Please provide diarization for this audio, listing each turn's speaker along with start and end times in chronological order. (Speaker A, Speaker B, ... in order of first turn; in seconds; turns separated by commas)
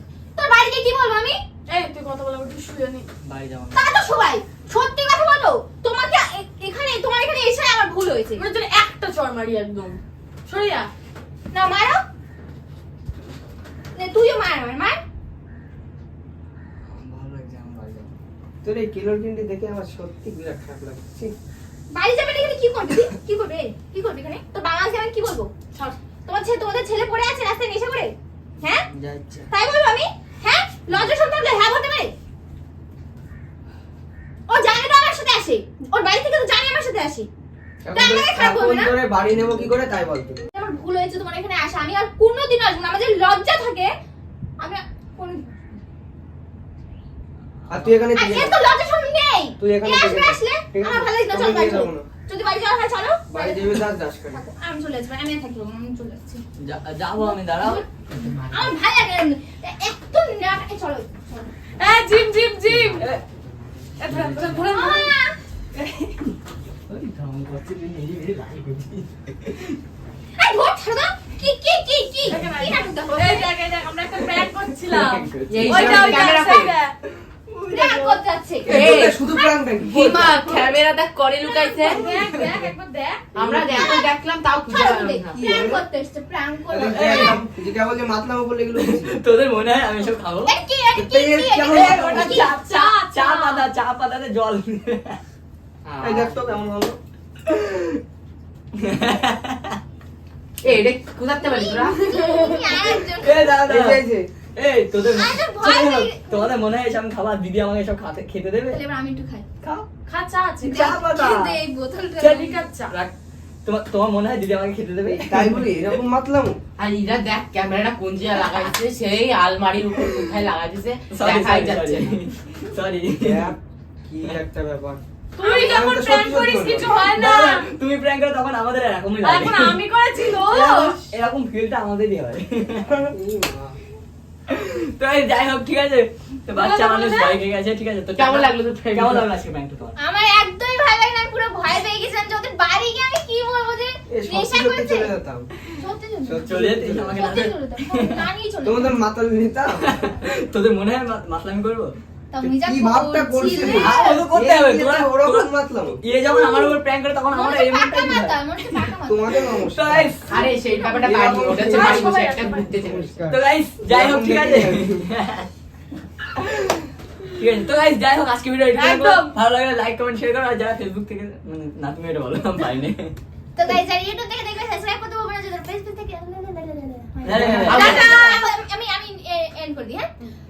Speaker A: 0.4-1.4, Speaker B: 1.7-3.1, Speaker C: 3.2-3.9, Speaker A: 3.7-8.5, Speaker B: 8.4-10.9, Speaker A: 11.5-12.0, Speaker A: 13.9-15.0, Speaker C: 16.8-18.1, Speaker D: 18.6-21.4, Speaker A: 21.9-25.5, Speaker B: 25.7-26.0, Speaker A: 26.2-28.9, Speaker C: 28.9-29.5, Speaker A: 29.5-32.1, Speaker A: 34.5-37.3, Speaker D: 37.8-40.4, Speaker A: 37.9-39.0, Speaker C: 39.4-39.6, Speaker A: 40.5-43.9, Speaker A: 44.6-45.6, Speaker C: 47.7-48.0, Speaker D: 47.7-48.6, Speaker A: 48.1-56.4, Speaker D: 49.6-52.1, Speaker D: 53.3-54.4, Speaker C: 56.6-58.2, Speaker A: 57.2-61.6, Speaker E: 58.1-58.8, Speaker B: 61.8-63.1, Speaker C: 62.9-63.2, Speaker B: 64.0-65.2, Speaker C: 64.0-64.8, Speaker A: 64.6-65.4, Speaker C: 65.7-66.4, Speaker C: 66.9-69.8, Speaker A: 70.4-73.6, Speaker B: 72.3-77.0, Speaker C: 74.1-76.2, Speaker E: 75.5-76.8, Speaker D: 75.6-76.2, Speaker C: 77.5-78.2, Speaker A: 77.7-78.7, Speaker D: 78.7-80.3, Speaker E: 78.7-79.2, Speaker A: 79.3-79.7, Speaker E: 79.8-82.1, Speaker A: 80.2-80.6, Speaker A: 81.4-82.0, Speaker B: 81.8-83.3, Speaker C: 82.1-82.7, Speaker E: 83.3-85.7, Speaker D: 83.4-83.7, Speaker A: 83.7-84.1, Speaker A: 84.7-87.2, Speaker D: 85.3-85.8, Speaker D: 86.7-89.2, Speaker C: 86.9-87.5, Speaker C: 88.8-90.6, Speaker A: 90.0-92.5, Speaker D: 91.0-92.5, Speaker C: 91.7-95.2, Speaker B: 92.5-93.7, Speaker C: 95.9-96.3, Speaker D: 96.0-97.0, Speaker C: 97.5-98.0, Speaker C: 98.8-99.8, Speaker E: 100.6-102.0, Speaker A: 101.4-103.6, Speaker C: 102.4-108.8, Speaker D: 103.6-104.3, Speaker A: 105.0-106.6, Speaker A: 108.7-109.5, Speaker C: 109.6-109.9, Speaker B: 110.1-110.9, Speaker A: 110.6-112.5, Speaker C: 110.7-111.6, Speaker C: 112.2-113.1, Speaker B: 112.4-113.0, Speaker C: 113.7-115.8, Speaker D: 115.0-116.6, Speaker E: 116.8-122.2, Speaker C: 121.1-123.5, Speaker D: 123.2-127.0, Speaker B: 125.4-127.7, Speaker C: 126.9-133.0, Speaker B: 129.2-131.1, Speaker D: 133.0-133.8, Speaker C: 134.5-140.0, Speaker B: 136.6-137.3, Speaker E: 138.2-139.3, Speaker A: 140.0-145.1, Speaker D: 144.1-145.7, Speaker A: 145.7-149.0, Speaker D: 146.2-147.3, Speaker C: 146.5-148.3, Speaker D: 148.6-150.1, Speaker C: 149.8-152.0, Speaker A: 152.3-154.3, Speaker D: 152.4-156.0, Speaker C: 153.5-160.3, Speaker A: 156.2-159.5, Speaker D: 159.0-160.2, Speaker A: 160.3-161.1, Speaker E: 160.3-163.2, Speaker D: 160.9-164.9, Speaker B: 161.5-162.8, Speaker C: 163.3-165.5, Speaker C: 166.3-173.2, Speaker A: 168.8-169.3, Speaker A: 173.6-180.1, Speaker C: 177.2-178.4, Speaker D: 177.4-177.8, Speaker E: 177.7-178.2